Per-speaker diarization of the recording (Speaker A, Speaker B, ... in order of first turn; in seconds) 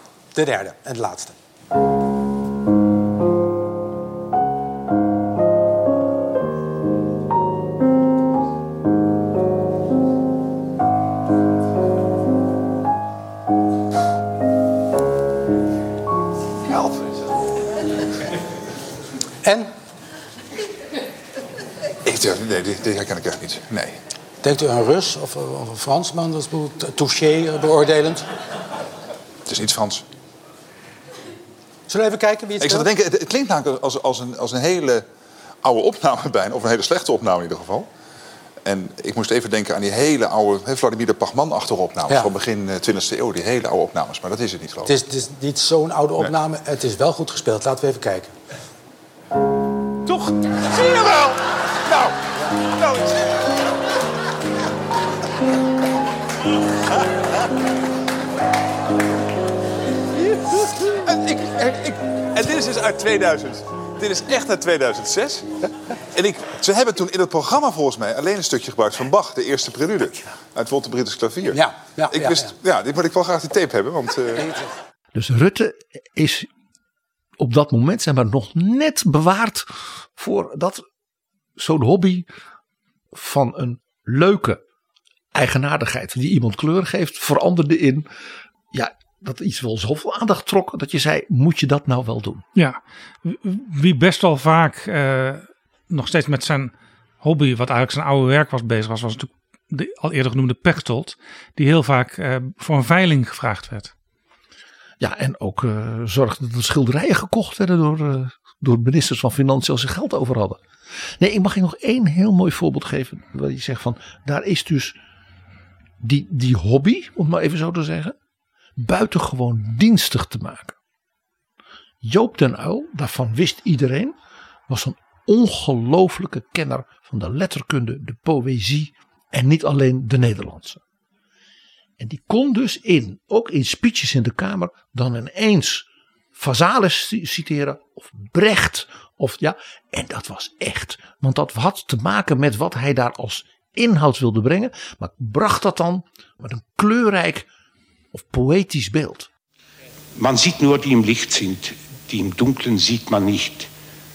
Speaker A: 0.3-1.3, 19.4-19.7, 24.4-28.3, 31.9-32.9, 42.1-42.3, 44.8-48.3, 71.5-72.5
Speaker B: 22.0-24.0, 29.4-30.0, 32.6-35.0, 35.6-37.9, 38.6-44.9, 50.8-51.1, 52.8-53.2, 60.6-65.6, 66.1-74.5
Speaker C: 75.1-76.5, 77.4-80.8, 81.6-82.3, 83.1-84.6, 85.3-88.0, 88.7-92.4, 105.0-110.6, 111.2-115.0, 116.0-118.1, 118.8-120.7, 122.0-124.1, 124.7-130.8, 132.0-147.4, 148.1-149.3
Speaker D: 92.5-103.9
Speaker E: 150.2-153.7